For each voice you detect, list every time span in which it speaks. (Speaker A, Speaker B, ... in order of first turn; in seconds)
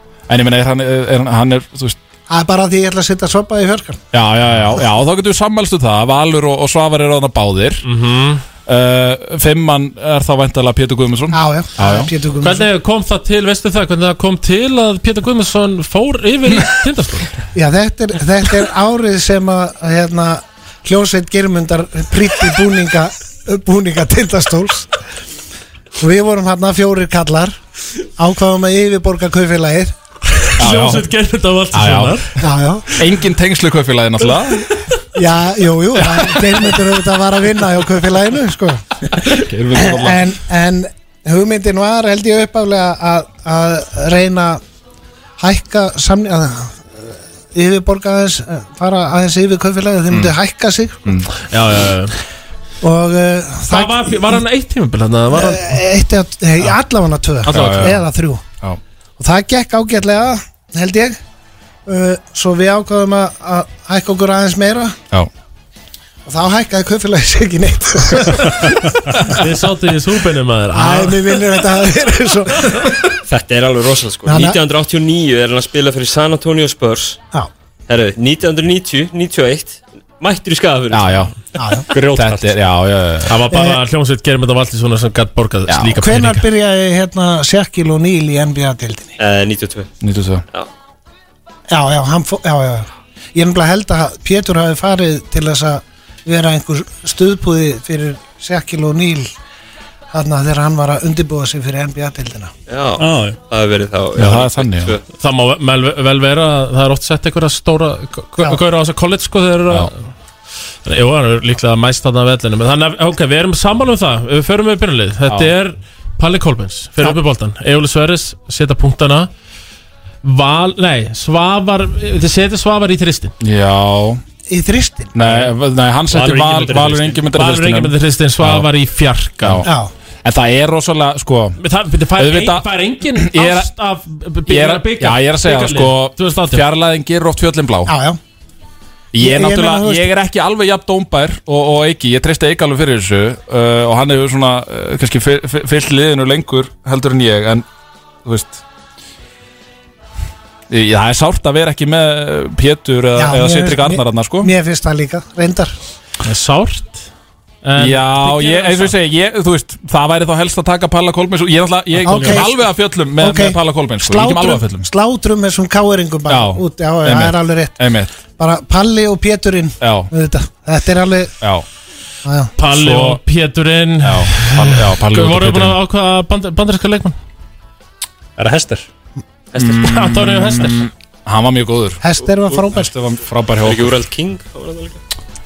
Speaker A: 0.3-2.0, 4.1-7.8, 8.7-12.1, 30.6-31.1, 31.7-32.2, 33.0-34.7, 39.2-40.3, 57.5-58.0, 80.9-81.3, 82.1-83.4, 85.7-85.9, 90.0-90.4, 104.2-105.0, 123.4-124.2, 125.1-128.7, 129.4-129.7, 130.2-131.6, 132.2-133.7, 134.4-137.9, 139.1-147.6, 148.2-148.6, 150.7-154.5, 157.8-164.9, 166.3-168.2, 169.8-170.1, 172.7-173.2, 174.0-175.8, 179.6-182.0, 182.7-183.9
Speaker B: 2.3-4.0, 11.3-12.7, 17.5-24.9, 26.0-27.6, 28.2-29.9, 32.4-32.9, 35.1-44.6, 45.4-51.1, 52.8-54.4, 55.3-58.4, 59.2-61.2, 61.9-65.0, 66.2-69.2, 70.7-73.1, 74.3-74.6, 81.6-81.8, 83.5-83.8, 86.0-89.1, 91.7-99.3, 100.1-102.5, 124.5-125.1, 129.6-129.9, 137.8-138.2, 139.2-140.1, 153.1-155.7, 162.0-171.3, 172.2-172.5, 182.0-182.9
Speaker C: 7.8-8.4, 12.4-17.4, 30.6-32.3, 51.4-52.1, 53.7-55.7, 57.5-57.9, 69.3-71.3, 83.3-86.4, 105.2-110.0, 110.8-119.3, 120.2-123.3, 127.3-129.7, 131.6-136.6, 156.2-157.1, 157.6-158.9, 162.1-162.4, 172.6-177.2, 179.7-180.8
Speaker D: 73.3-77.2, 77.9-81.3, 89.2-89.9, 102.7-105.0, 183.6-185.0
Speaker E: 81.9-82.5, 103.0-103.4, 126.1-127.2, 178.4-178.9